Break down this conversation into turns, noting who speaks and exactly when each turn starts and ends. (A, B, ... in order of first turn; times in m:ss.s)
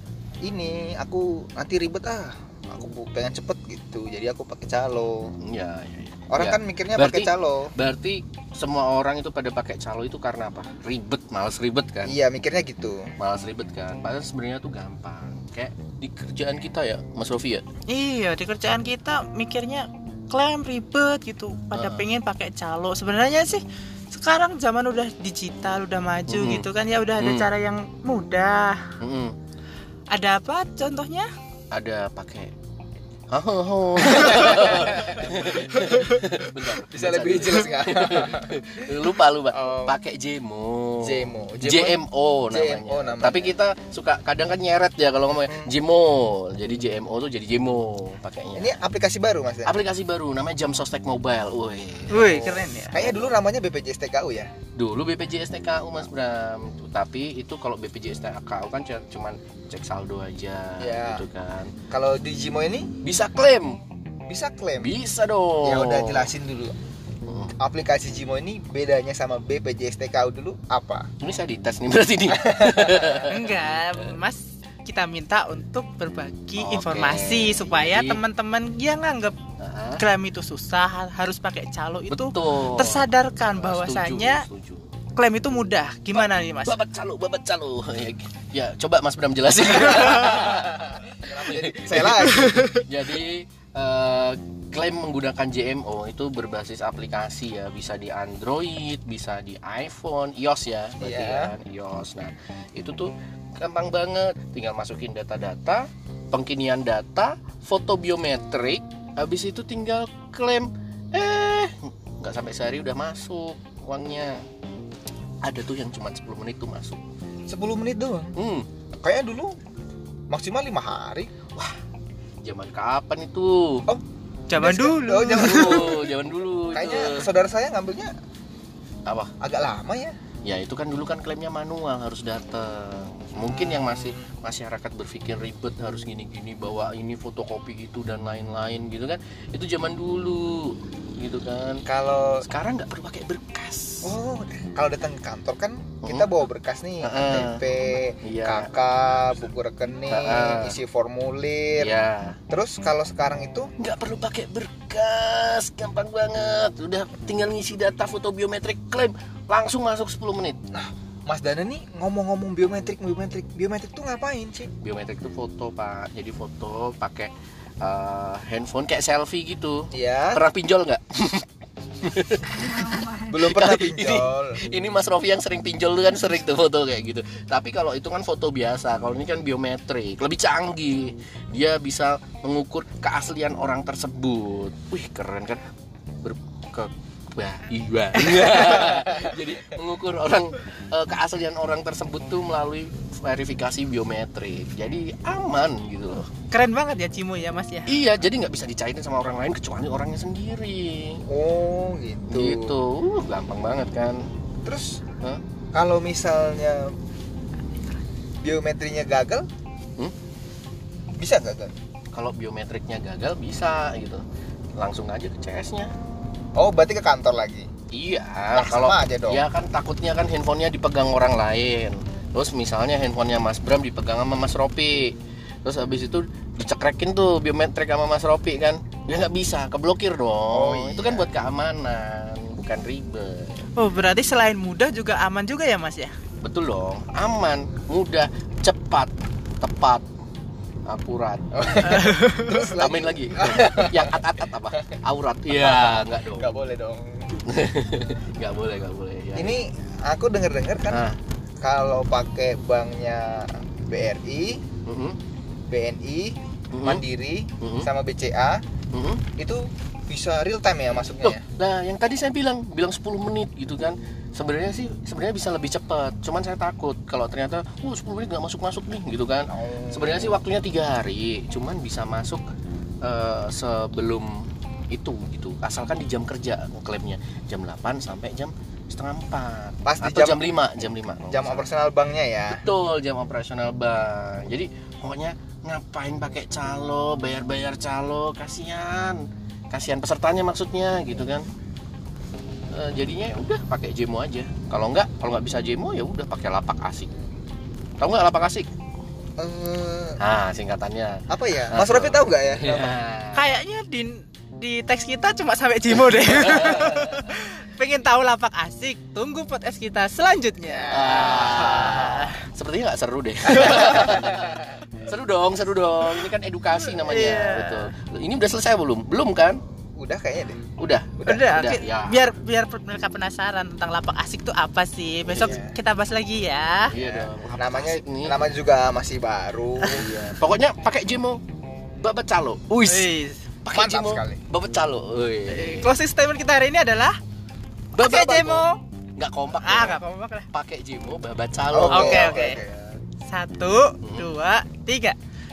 0:00.4-0:05.3 A
0:05.4-0:12.2 B
0:06.3-0:07.7 A
0:12.0-0:13.1 A
0:13.2-0:17.6 B
0:17.9-0:28.9 C
0:21.7-0:22.1 B
0:26.3-0:26.7 B
0:27.2-0:27.5 B
0:29.0-0:29.4 B
0:30.1-0:31.3 C
0:31.7-0:32.5 B
0:33.3-0:48.8 B
0:34.1-0:35.9 A
0:36.8-0:38.6 A
0:39.5-0:40.0 A
0:41.0-0:43.6 A
0:45.5-0:45.8 A
0:48.6-0:49.8 A
0:49.6-0:52.3 B
0:52.1-0:53.0 C
0:52.3-0:54.5 A
0:53.0-0:53.4 B
0:54.8-1:01.7 B
1:00.8-1:01.2 A
1:01.9-1:03.0 A
1:03.0-1:03.8 B
1:04.3-1:05.0 A
1:04.8-1:06.3 B
1:05.6-1:06.7 A
1:07.3-1:07.5 B
1:07.6-1:11.1 A
1:11.2-1:13.6 B
1:12.3-1:13.1 A
1:13.3-1:19.4 C
1:16.6-1:18.2 B
1:19.6-1:20.0 B
1:20.0-1:24.5 C
1:22.1-1:24.9 B
1:25.2-1:26.8 C
1:26.1-1:54.4 B
1:30.5-1:32.7 A
1:32.4-1:32.7 C
1:41.0-1:41.5 A
1:55.4-1:57.0 B
1:57.5-1:58.4 A
1:58.4-1:58.7 B
1:59.0-1:59.6 A
2:00.3-2:01.3 A
2:02.4-2:03.9 B
2:04.5-2:05.9 C
2:04.6-2:06.0 A
2:05.4-2:07.3 B
2:06.7-2:08.1 A
2:09.1-2:09.3 B
2:09.4-2:10.2 A
2:10.4-2:21.8 B
2:13.7-2:14.2 A
2:21.8-2:22.5 A
2:22.4-2:24.2 B
2:24.0-2:32.0 A
2:26.0-2:26.3 B
2:27.0-2:27.7 B
2:28.2-2:28.7 B
2:30.1-2:30.8 B
2:31.8-2:32.4 B
2:32.5-2:33.7 A
2:33.8-2:40.6 B
2:40.7-2:44.7 A
2:44.8-2:51.5 B
2:49.9-2:50.4 A
2:52.0-3:05.6 B
2:53.3-2:54.6 A
3:06.2-3:16.3 B
3:16.5-3:18.0 C
3:17.9-3:21.2 B
3:21.3-3:22.8 A
3:22.3-3:24.3 B
3:24.6-3:25.0 A
3:25.7-3:26.9 A
3:28.4-3:29.5 A
3:31.2-3:31.7 A
3:32.1-3:34.2 B
3:34.8-3:35.9 B
3:36.6-3:37.7 A
3:37.9-3:53.7 B
3:38.5-3:39.4 A
3:50.5-3:51.3 A
3:53.7-3:56.2 C
3:56.4-4:00.0 B
4:00.9-4:02.1 B
4:01.5-4:04.2 A
4:01.9-4:02.7 C
4:02.6-4:06.6 B
4:05.5-4:07.4 A
4:07.4-4:09.6 B
4:09.4-4:11.1 A
4:10.9-4:11.2 B
4:11.6-4:14.6 A
4:14.9-4:15.2 B
4:15.7-4:18.6 A
4:16.7-4:17.0 B
4:17.6-4:17.9 B
4:18.9-4:19.2 B
4:19.4-4:21.4 A
4:21.2-4:32.5 B
4:29.5-4:30.4 A
4:33.0-4:41.7 B
4:39.8-4:40.5 A
4:41.3-4:42.7 A
4:42.5-4:51.5 B
4:52.7-4:57.1 B
4:58.0-4:58.7 B
4:59.4-5:00.2 A
5:00.2-5:03.5 B
5:01.3-5:02.9 A
5:03.3-5:12.4 C
5:06.4-5:07.1 B
5:10.7-5:11.4 A
5:10.9-5:19.6 B
5:16.9-5:17.9 C
5:20.0-5:20.7 A
5:20.8-5:22.3 B
5:21.2-5:26.9 C
5:25.3-5:25.6 B
5:25.3-5:25.8 A
5:26.9-5:28.4 B
5:27.0-5:30.4 A
5:29.8-5:31.4 B
5:32.0-5:33.1 B
5:32.9-5:33.4 C
5:33.6-5:35.9 B
5:33.7-5:34.4 A
5:35.5-5:37.2 C
5:37.9-5:40.0 B
5:38.0-5:38.8 C
5:39.6-5:40.5 C
5:40.5-5:43.0 B
5:41.7-5:42.7 A
5:41.9-5:42.6 C
5:43.2-5:45.2 C
5:44.0-5:44.3 B